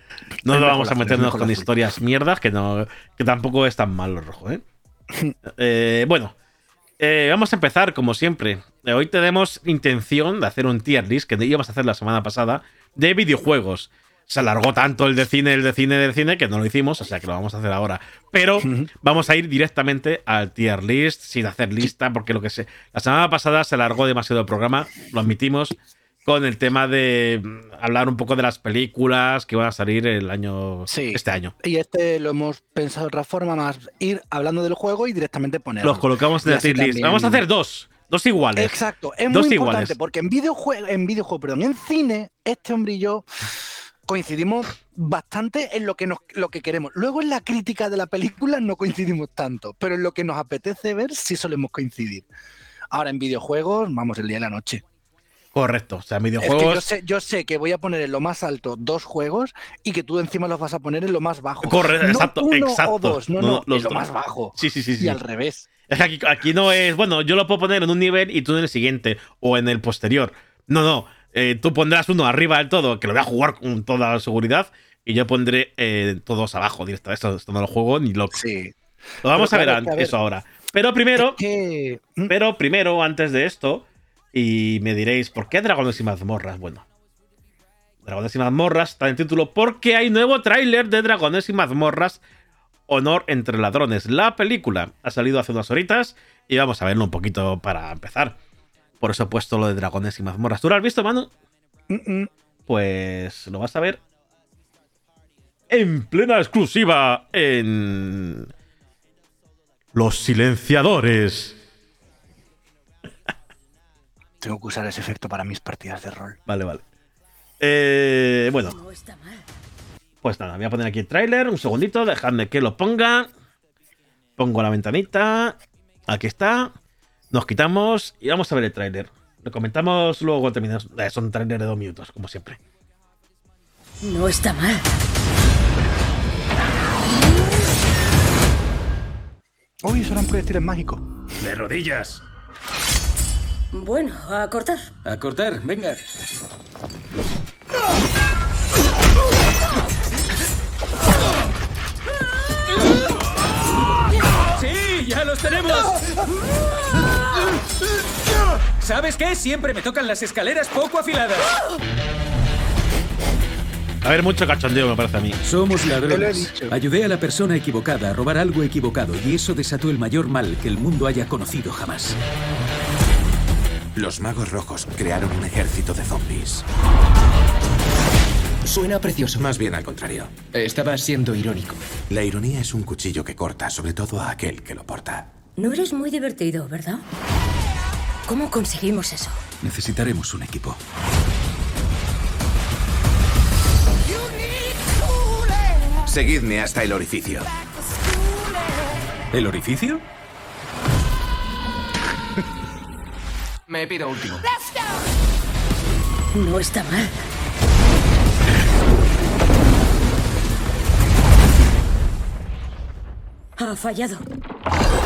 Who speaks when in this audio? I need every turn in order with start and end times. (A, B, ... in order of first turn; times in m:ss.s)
0:00.4-0:04.6 A
0:00.5-0:01.7 B
0:05.5-0:06.3 A
0:07.0-0:31.5 A
0:18.6-0:18.9 B
0:30.9-0:37.4 B
0:35.8-0:40.0 A
0:38.6-0:43.2 B
0:44.1-0:52.2 B
0:52.9-0:54.8 B
0:55.5-0:56.9 A
0:56.4-1:05.7 B
1:01.6-1:05.2 A
1:05.9-1:18.4 A
1:18.3-1:18.7 B
1:19.2-1:21.4 A
1:19.3-1:20.1 B
1:21.2-1:22.3 B
1:22.3-1:26.8 A
1:28.0-1:32.2 A
1:32.9-1:38.4 A
1:39.0-1:41.3 A
1:41.9-1:42.3 B
1:42.7-1:44.0 A
1:45.7-1:48.5 A
1:49.9-1:51.6 A
1:54.4-1:56.4 B
1:56.5-1:56.8 A
1:57.6-1:58.7 A
1:58.6-1:59.4 C
2:00.2-2:03.3 A
2:04.4-2:05.6 A
2:06.1-2:06.7 A
2:07.3-2:12.6 A
2:14.0-2:14.8 C
2:19.8-2:21.0 B
2:21.5-2:22.2 D
2:23.7-2:24.9 C
2:25.0-2:26.0 D
2:34.6-2:36.0 D
2:38.8-2:41.5 D
2:44.0-2:45.4 A
2:45.4-2:52.2 D
2:46.0-2:46.7 B
2:53.9-2:56.6 E
2:58.6-2:59.5 F
2:59.3-3:00.4 E
3:00.5-3:01.8 F
3:02.1-3:05.3 E
3:05.6-3:07.0 C
3:08.3-3:09.4 C
3:09.6-3:10.8 E
3:16.0-3:17.5 E
3:19.3-3:20.0 D
3:23.7-3:24.4 F
3:26.3-3:27.2 C
3:33.6-3:34.2 C